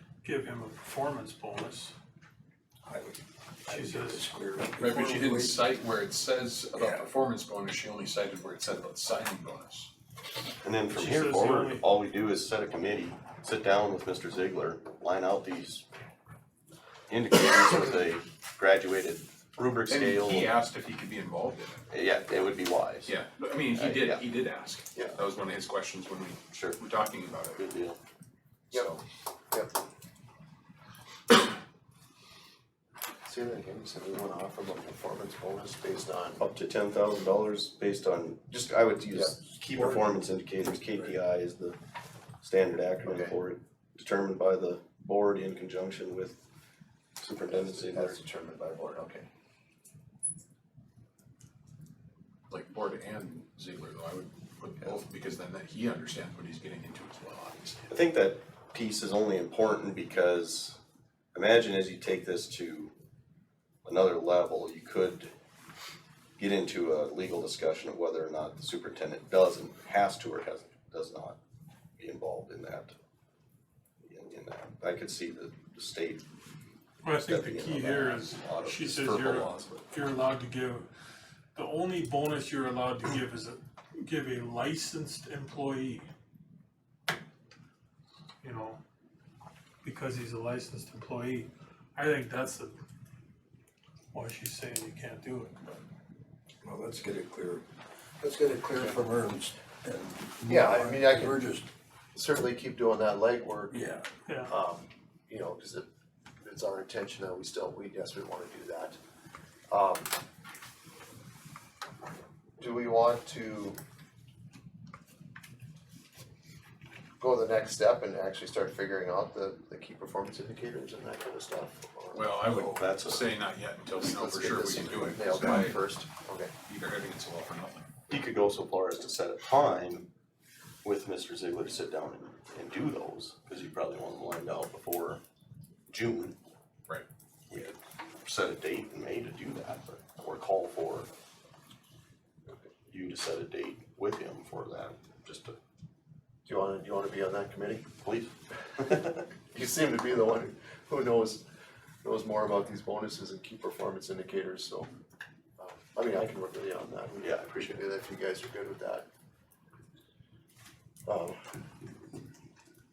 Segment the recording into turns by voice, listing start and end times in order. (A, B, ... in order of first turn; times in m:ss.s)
0:00.2-0:01.9 A
0:02.8-0:05.6 B
0:03.7-0:04.2 A
0:04.8-0:09.9 C
0:06.8-0:07.0 B
0:10.6-0:15.8 D
0:10.9-0:11.8 A
0:17.1-0:20.5 D
0:19.9-0:21.9 C
0:21.9-0:23.1 D
0:23.0-0:27.6 C
0:23.7-0:24.2 D
0:26.5-0:26.8 D
0:27.6-0:28.0 D
0:28.7-0:29.0 C
0:33.2-0:36.4 E
0:36.4-0:41.8 D
0:39.7-0:40.1 B
0:42.4-0:46.4 D
0:43.0-0:43.4 E
0:47.2-0:48.2 D
0:47.5-0:49.3 E
0:52.5-0:57.9 C
0:57.9-1:00.8 D
1:01.3-1:02.9 D
1:03.8-1:05.3 D
1:06.4-1:11.4 D
1:12.0-1:12.9 D
1:14.0-1:16.2 D
1:17.0-1:20.9 A
1:17.1-1:19.9 D
1:21.5-1:26.0 A
1:28.4-1:28.8 A
1:29.8-1:32.8 A
1:34.1-1:35.7 A
1:36.6-1:37.6 B
1:38.2-1:41.7 B
1:38.8-1:39.0 E
1:40.4-1:41.4 E
1:42.1-1:43.7 E
1:43.7-1:44.1 B
1:44.2-1:44.5 A
1:44.5-1:45.8 E
1:46.4-1:49.0 E
1:49.7-1:50.1 E
1:52.6-1:53.8 E
1:57.2-2:02.3 E
2:02.1-2:05.9 C
2:02.7-2:03.3 D
2:04.0-2:06.5 E
2:06.6-2:07.9 C
2:08.1-2:10.1 D
2:10.8-2:15.2 D
2:15.9-2:16.4 D
2:17.5-2:21.1 D
2:22.9-2:25.6 D
2:26.4-2:27.8 E
2:28.0-2:29.2 D
2:29.5-2:31.4 E
2:32.0-2:34.9 E
2:35.6-2:39.0 E
2:37.2-2:37.8 D
2:41.0-2:41.4 E